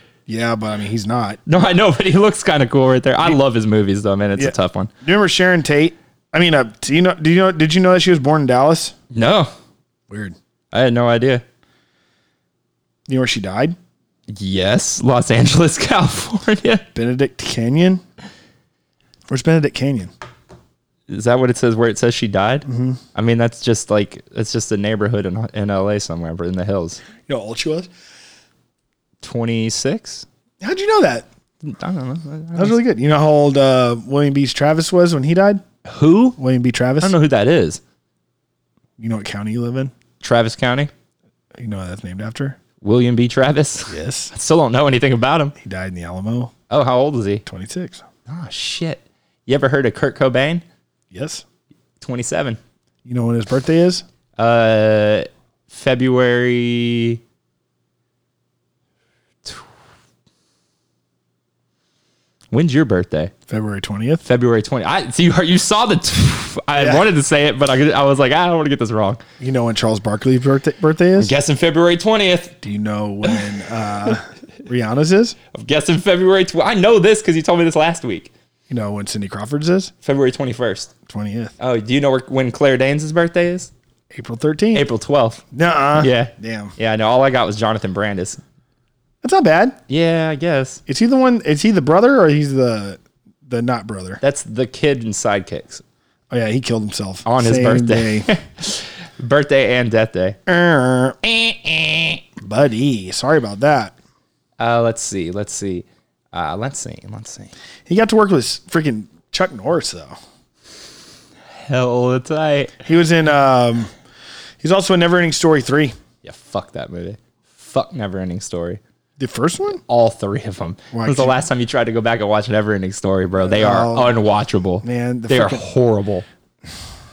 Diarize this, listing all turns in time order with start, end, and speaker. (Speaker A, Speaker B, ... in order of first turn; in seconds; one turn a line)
Speaker A: 0.3-1.4
Speaker B: 1.5-4.9
Speaker A: 4.4-8.9
Speaker B: 9.1-9.5
Speaker A: 10.1-10.3
Speaker B: 10.7-11.4
Speaker A: 13.1-13.8
Speaker B: 14.3-16.9
Speaker A: 16.9-18.0
Speaker A: 19.3-20.1
Speaker B: 21.1-27.0
Speaker A: 22.7-23.0
Speaker A: 27.3-27.9
Speaker B: 29.2-30.3
Speaker A: 30.6-31.3
Speaker B: 31.6-32.8
Speaker A: 32.6-35.6
Speaker B: 35.9-36.4
Speaker A: 36.4-37.1
Speaker B: 37.0-37.8
Speaker A: 39.0-39.9
Speaker B: 40.2-40.9
Speaker A: 41.6-42.6
Speaker B: 42.8-45.5
Speaker A: 43.9-44.3
Speaker A: 45.6-46.5
Speaker B: 46.7-47.5
Speaker A: 47.5-48.0
Speaker B: 48.3-50.6
Speaker A: 51.1-51.4
Speaker B: 52.0-52.6
Speaker A: 53.1-54.0
Speaker B: 54.4-57.2
Speaker B: 62.5-63.3
Speaker A: 63.5-64.2
Speaker B: 64.2-69.2
Speaker A: 66.8-67.1
Speaker A: 69.4-71.3
Speaker B: 71.2-72.6
Speaker A: 72.6-75.4
Speaker B: 75.5-78.3
Speaker A: 78.7-79.9
Speaker B: 80.0-80.9
Speaker A: 81.1-81.5
Speaker B: 81.6-83.7
Speaker A: 84.1-84.9
Speaker B: 84.7-85.4
Speaker A: 85.5-86.7
Speaker B: 86.0-88.4
Speaker A: 89.2-89.8
Speaker B: 89.9-90.8
Speaker A: 90.9-94.2
Speaker B: 94.2-95.8
Speaker A: 96.3-98.3
Speaker B: 97.2-100.4
Speaker A: 100.5-101.2
Speaker B: 101.2-102.2
Speaker A: 102.4-104.0
Speaker B: 104.6-107.5
Speaker A: 107.9-110.2
Speaker B: 111.7-112.8
Speaker A: 112.8-113.9
Speaker A: 114.6-115.9
Speaker B: 116.2-118.8
Speaker A: 119.2-119.8
Speaker B: 119.8-126.2
Speaker A: 120.9-121.4
Speaker A: 123.4-124.2
Speaker A: 124.8-125.6